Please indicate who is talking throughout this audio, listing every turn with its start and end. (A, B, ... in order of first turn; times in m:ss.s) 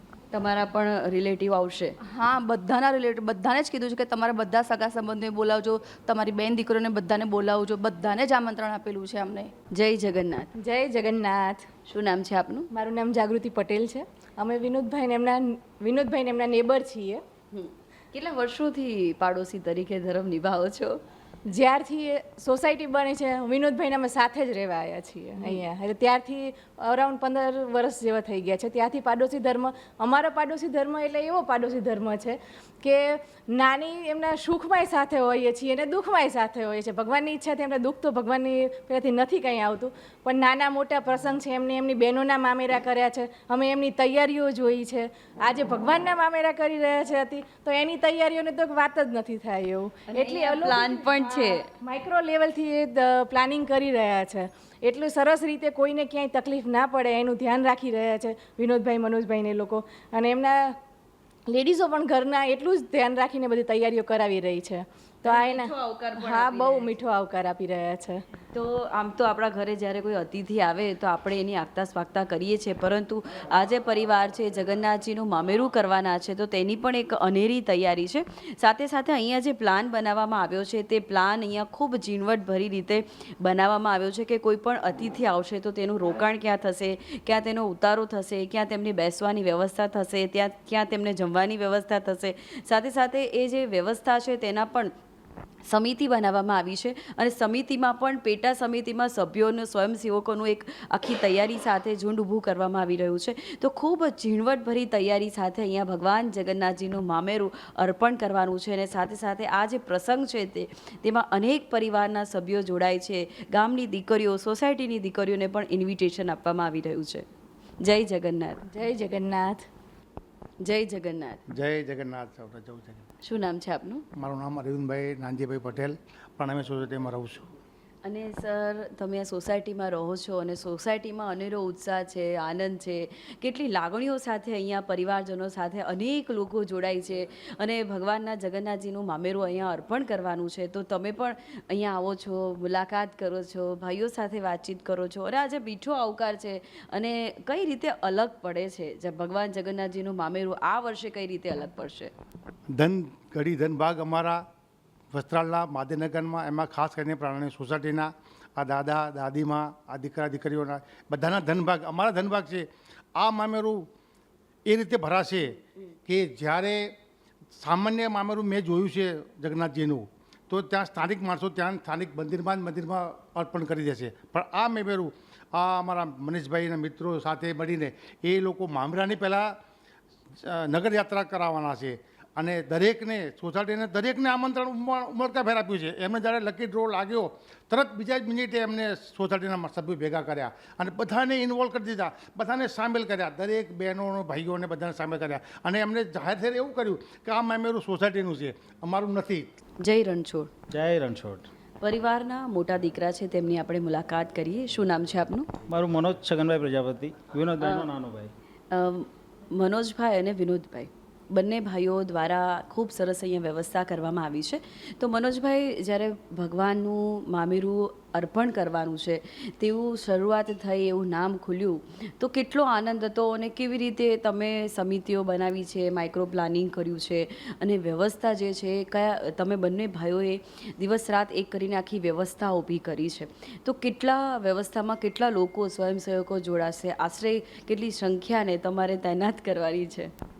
0:00.3-0:02.0 A
0:02.1-0:09.5 B
0:09.7-0:10.5 A
0:10.6-0:11.7 C
0:11.9-0:12.7 A
0:12.7-0:17.2 C
0:17.5-0:21.0 A
0:21.5-1:00.8 C
0:50.1-0:51.7 A
1:01.5-1:08.2 C
1:05.2-1:07.0 A
1:08.5-1:34.9 A
1:35.7-1:57.2 A
1:57.8-1:58.6 A
1:58.7-1:59.7 C
2:00.6-2:01.4 A
2:01.5-2:03.0 D
2:03.2-2:04.0 A
2:04.2-2:07.5 D
2:08.0-2:32.1 A
2:32.8-2:34.4 D
2:35.1-2:43.9 D
2:44.7-2:46.9 D
2:47.5-2:59.6 D
3:00.4-3:19.5 D
3:19.8-3:20.5 A
3:20.7-3:21.5 E
3:21.8-3:25.5 A
3:25.7-3:28.3 E
3:28.7-4:00.1 A